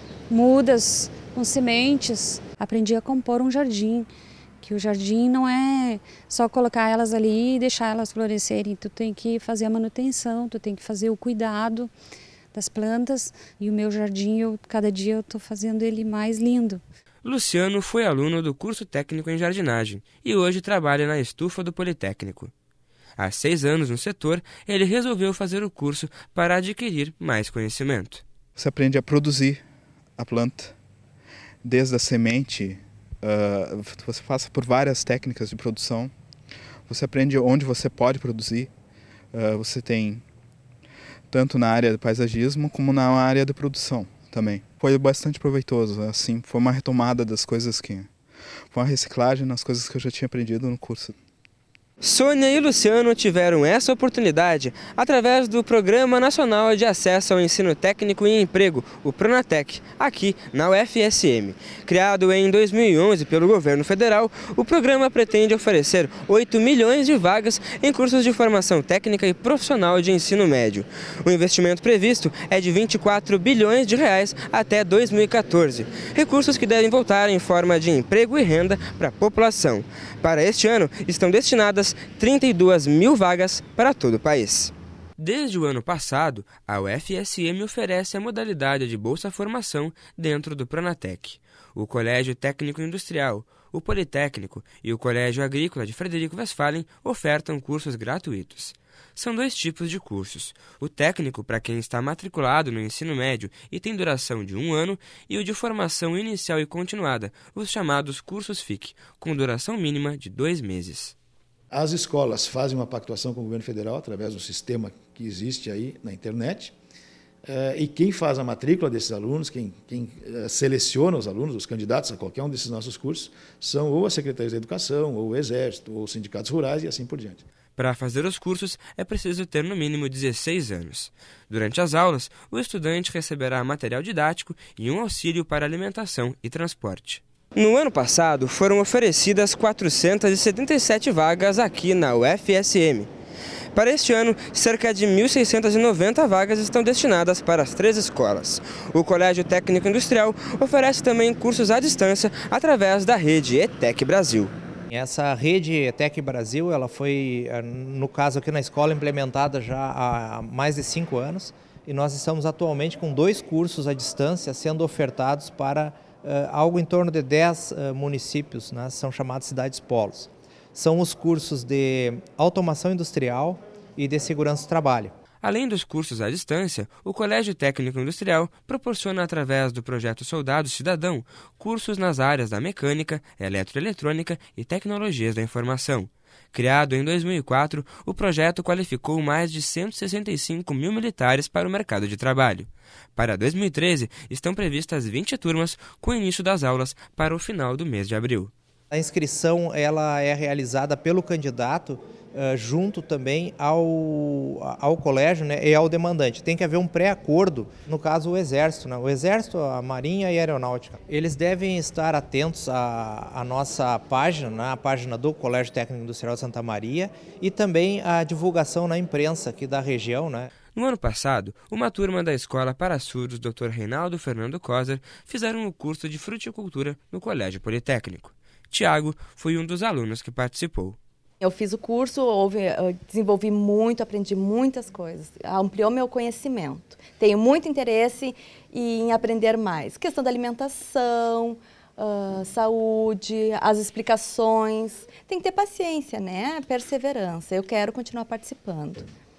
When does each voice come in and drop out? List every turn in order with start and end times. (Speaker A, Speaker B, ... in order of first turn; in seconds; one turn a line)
Speaker A: 0.3-4.1
Speaker A: 4.6-11.9
Speaker A: 12.5-16.8
Speaker B: 17.2-22.5
Speaker B: 23.2-28.2
Speaker C: 28.6-29.6
Speaker C: 30.2-30.7
Speaker C: 31.6-36.1
Speaker C: 36.9-38.7
Speaker C: 39.3-40.2
Speaker C: 41.3-48.1
Speaker C: 48.7-51.1
Speaker B: 52.0-111.2
Speaker D: 111.7-116.7
Speaker D: 117.4-127.4
Speaker B: 127.8-143.1
Speaker B: 143.7-154.5
Speaker E: 154.9-175.1
Speaker B: 175.4-198.5
Speaker E: 198.9-220.5
Speaker B: 220.7-231.0
Speaker F: 231.4-249.1